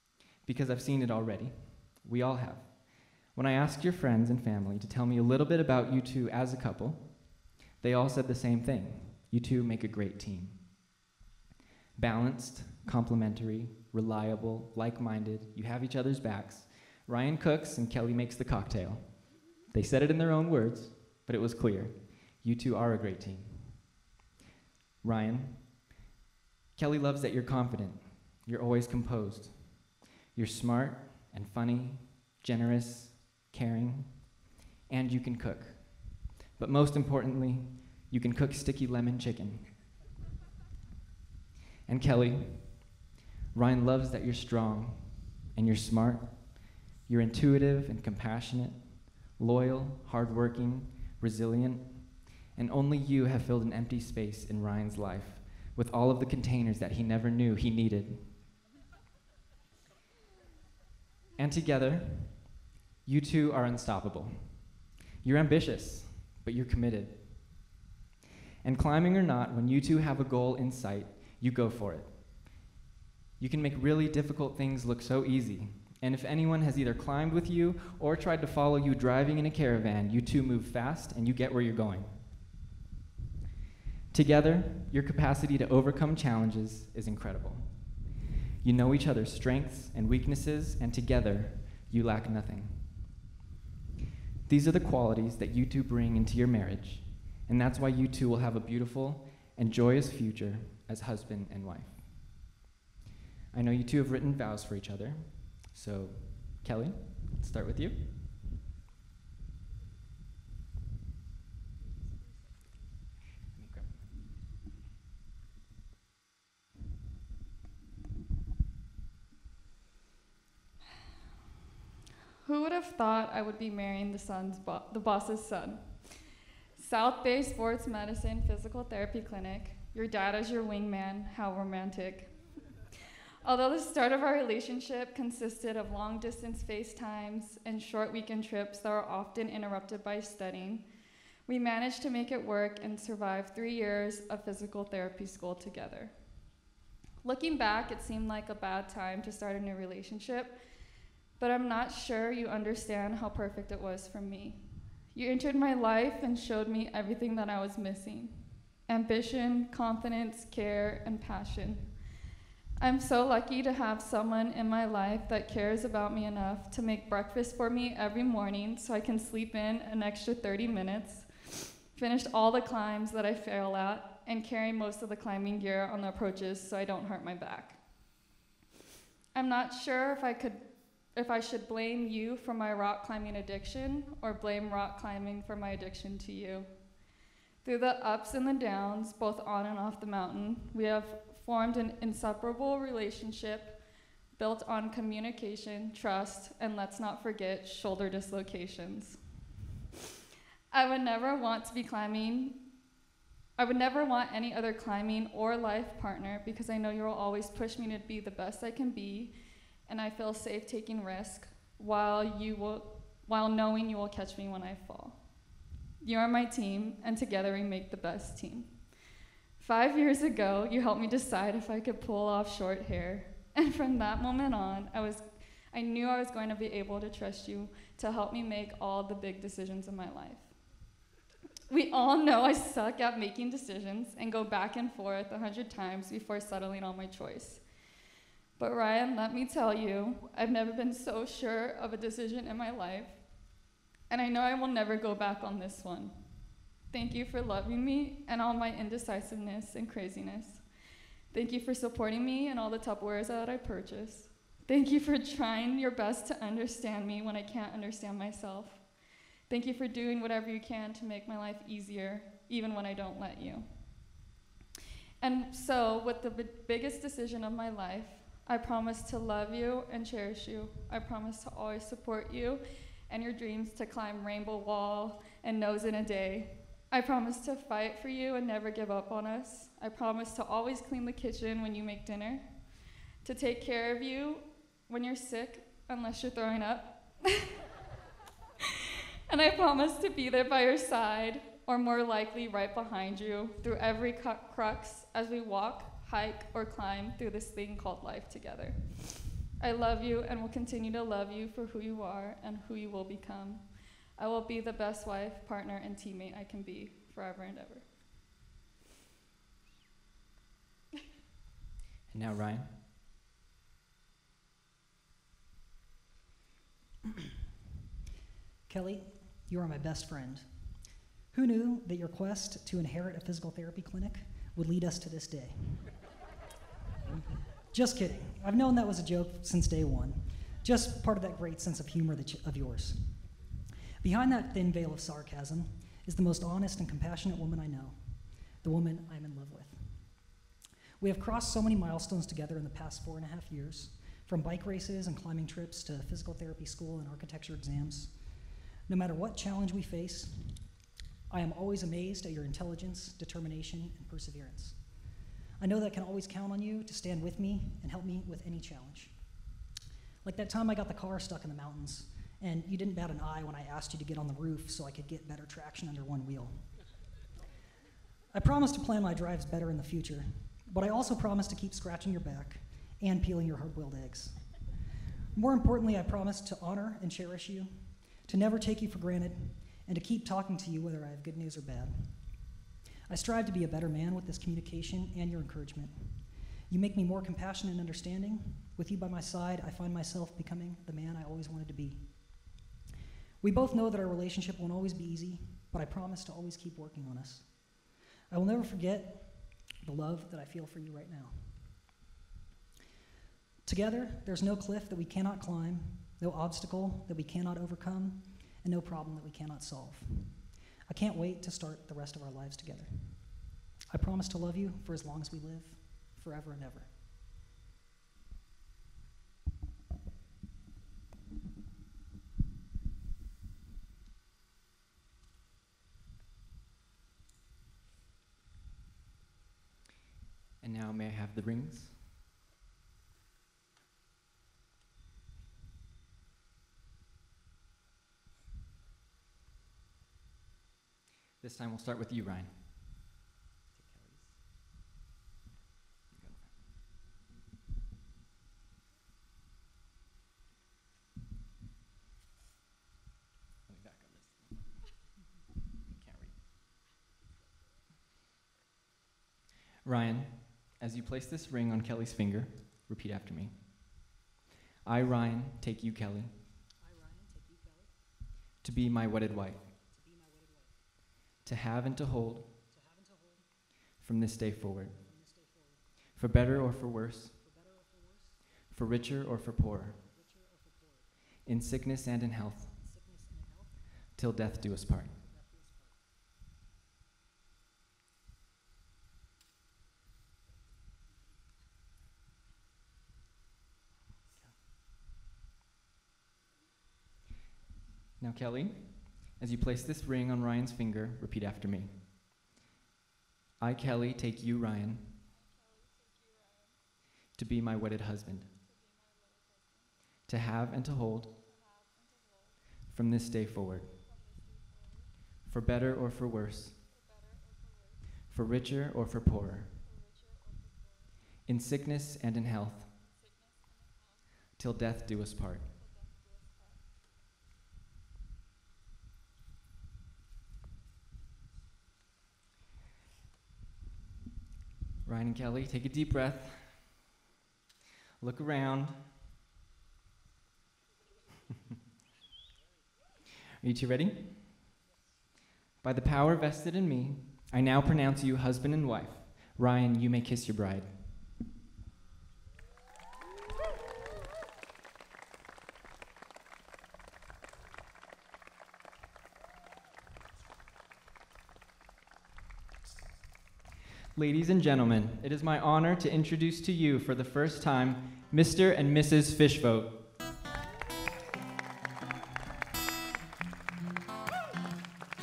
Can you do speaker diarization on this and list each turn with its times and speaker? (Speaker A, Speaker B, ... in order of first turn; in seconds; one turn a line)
Speaker A: 0.4-10.7
Speaker A: 11.9-23.9
Speaker A: 25.0-25.9
Speaker A: 26.7-39.8
Speaker A: 41.9-43.0
Speaker A: 43.5-58.4
Speaker A: 61.4-62.5
Speaker A: 63.0-67.7
Speaker A: 68.6-72.6
Speaker A: 73.4-82.3
Speaker A: 84.1-88.0
Speaker A: 88.6-93.1
Speaker A: 94.5-102.3
Speaker A: 103.5-108.2
Speaker A: 113.5-114.4
Speaker B: 122.4-126.2
Speaker B: 126.8-132.3
Speaker B: 133.4-140.8
Speaker B: 141.4-146.1
Speaker B: 147.2-150.6
Speaker B: 151.4-154.6
Speaker B: 155.1-161.9
Speaker B: 162.8-177.8
Speaker B: 179.3-186.7
Speaker B: 187.6-193.8
Speaker B: 194.3-199.2
Speaker B: 200.7-202.6
Speaker B: 203.6-209.3
Speaker B: 209.9-215.2
Speaker B: 216.0-218.8
Speaker B: 219.6-230.5
Speaker B: 231.7-237.6
Speaker B: 238.6-243.2
Speaker B: 244.1-246.1
Speaker B: 246.9-250.6
Speaker B: 251.3-258.9
Speaker B: 259.5-263.7
Speaker B: 265.2-282.4
Speaker B: 283.2-287.5
Speaker B: 289.3-307.9
Speaker A: 312.1-312.7
Speaker C: 318.7-320.7
Speaker C: 321.3-325.9
Speaker C: 327.7-333.2
Speaker C: 334.0-338.0
Speaker C: 338.6-340.4
Speaker C: 341.0-348.2
Speaker C: 348.9-350.7
Speaker C: 351.3-354.8
Speaker C: 355.6-359.3
Speaker C: 360.2-366.7
Speaker C: 368.3-374.5
Speaker C: 375.3-382.4
Speaker C: 383.1-392.6
Speaker C: 393.4-401.7
Speaker C: 403.6-416.9
Speaker A: 430.6-432.1
Speaker A: 441.4-442.9
Speaker A: 443.7-444.4
Speaker A: 446.1-446.6
Speaker A: 453.7-454.9
Speaker A: 455.9-456.4
Speaker A: 459.8-464.1
Speaker A: 464.8-466.3
Speaker C: 466.8-468.0
Speaker A: 468.6-469.7
Speaker C: 469.7-470.8
Speaker A: 471.4-472.5
Speaker C: 472.7-473.5
Speaker A: 474.0-475.0
Speaker C: 475.0-475.9
Speaker A: 476.1-477.4
Speaker C: 477.4-478.4
Speaker A: 478.7-480.0
Speaker C: 480.0-481.1
Speaker A: 481.4-482.8
Speaker C: 482.8-483.9
Speaker A: 484.1-485.1
Speaker C: 485.2-486.0
Speaker A: 498.2-502.0
Speaker A: 503.6-505.1
Speaker B: 505.5-506.7
Speaker A: 507.3-508.5
Speaker B: 508.7-509.8
Speaker A: 510.3-511.3
Speaker B: 511.5-512.6
Speaker A: 512.9-514.0
Speaker B: 514.1-515.1
Speaker A: 515.4-516.8
Speaker B: 516.9-518.1
Speaker A: 518.3-519.8
Speaker B: 519.8-521.1
Speaker A: 521.4-522.9
Speaker B: 523.1-524.2
Speaker A: 524.5-525.7
Speaker B: 525.8-526.8
Speaker A: 535.0-537.0
Speaker A: 538.2-539.0
Speaker A: 543.6-544.4
Speaker A: 545.8-551.2
Speaker A: 564.1-570.0